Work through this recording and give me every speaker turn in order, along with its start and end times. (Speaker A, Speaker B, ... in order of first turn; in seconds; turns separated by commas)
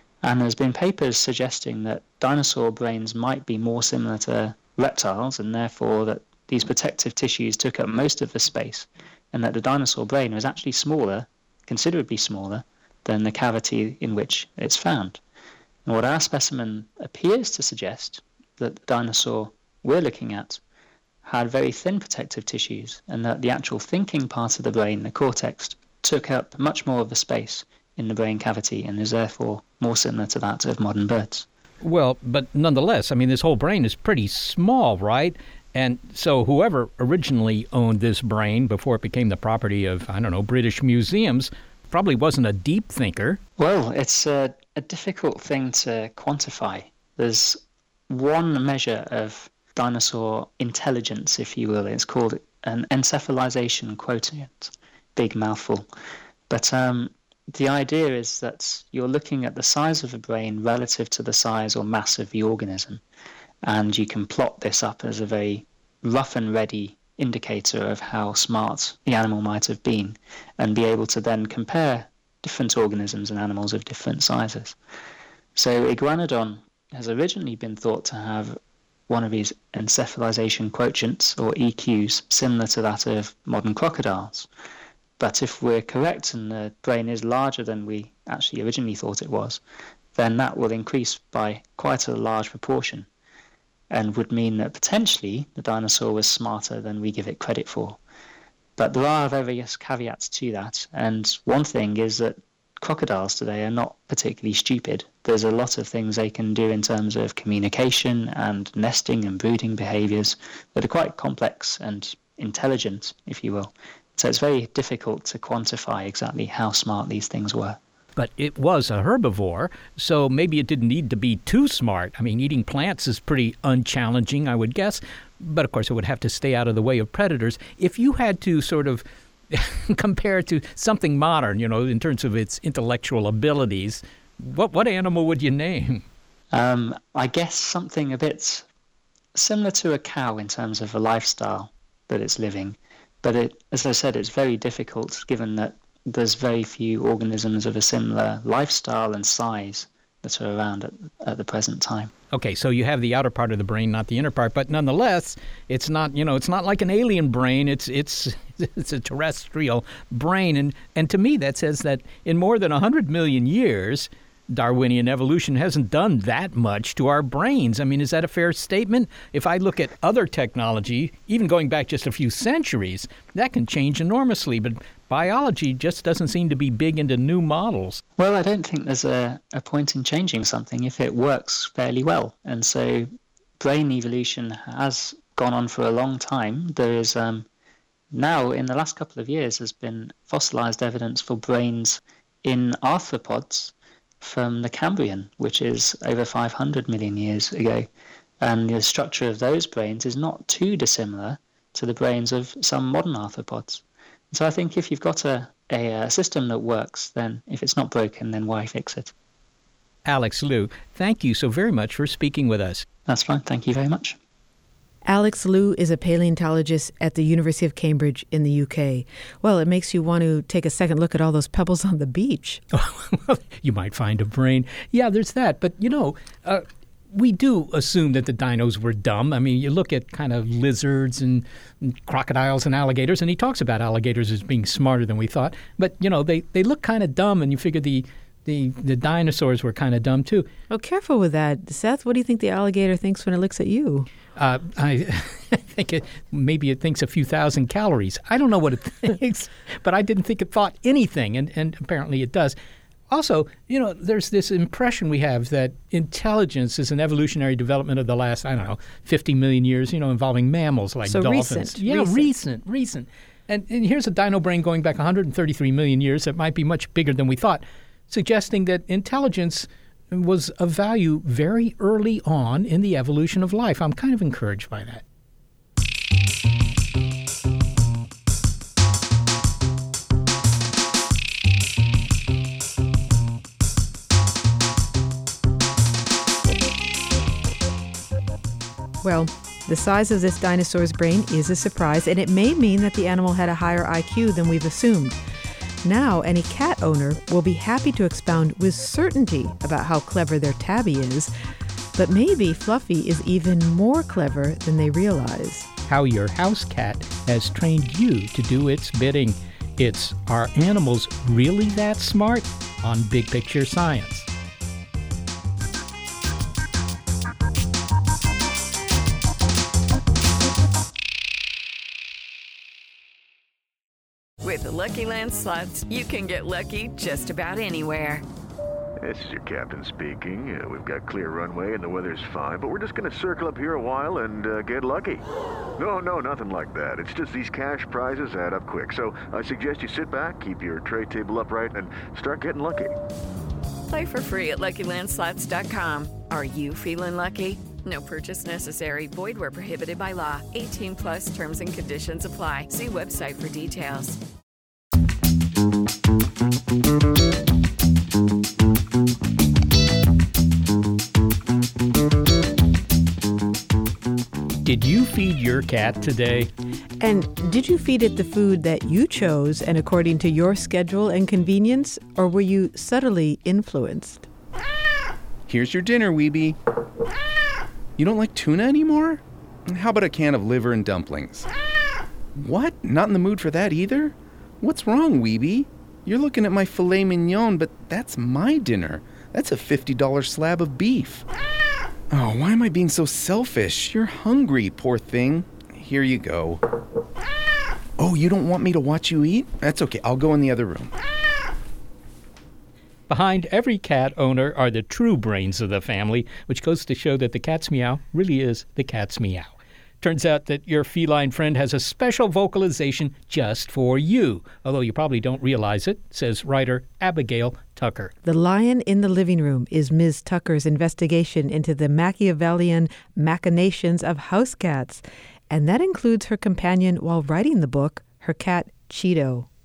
Speaker A: 0.2-15.2, Speaker A: 15.9-20.6, Speaker A: 21.2-31.5, Speaker B: 31.8-43.4, Speaker A: 43.6-55.9, Speaker A: 56.5-63.0, Speaker A: 63.6-74.8, Speaker A: 75.6-78.6, Speaker A: 79.1-84.5, Speaker A: 85.2-89.6, Speaker A: 90.1-93.1, Speaker A: 93.9-98.0, Speaker A: 98.8-117.8, Speaker B: 118.2-136.0, Speaker A: 136.5-138.6, Speaker A: 139.4-152.1, Speaker B: 152.3-178.0, Speaker A: 178.2-183.1, Speaker A: 183.6-187.5, Speaker A: 188.1-197.9, Speaker A: 198.4-209.1, Speaker B: 210.1-212.8, Speaker A: 213.1-214.2, Speaker C: 215.1-222.6, Speaker B: 222.7-240.5, Speaker C: 240.7-244.1, Speaker B: 244.4-252.6, Speaker B: 253.1-275.0, Speaker C: 261.1-262.3, Speaker C: 289.0-295.2, Speaker C: 295.8-301.3, Speaker C: 301.9-305.7, Speaker B: 305.9-314.3, Speaker D: 324.4-328.2, Speaker E: 329.0-335.2, Speaker E: 335.8-342.9, Speaker D: 343.9-354.2, Speaker B: 364.6-366.5, Speaker C: 367.0-374.3, Speaker F: 375.5-376.6, Speaker F: 378.0-381.5, Speaker F: 382.4-391.2, Speaker F: 392.1-396.6, Speaker F: 398.0-400.9, Speaker B: 403.1-418.1, Speaker C: 418.2-429.5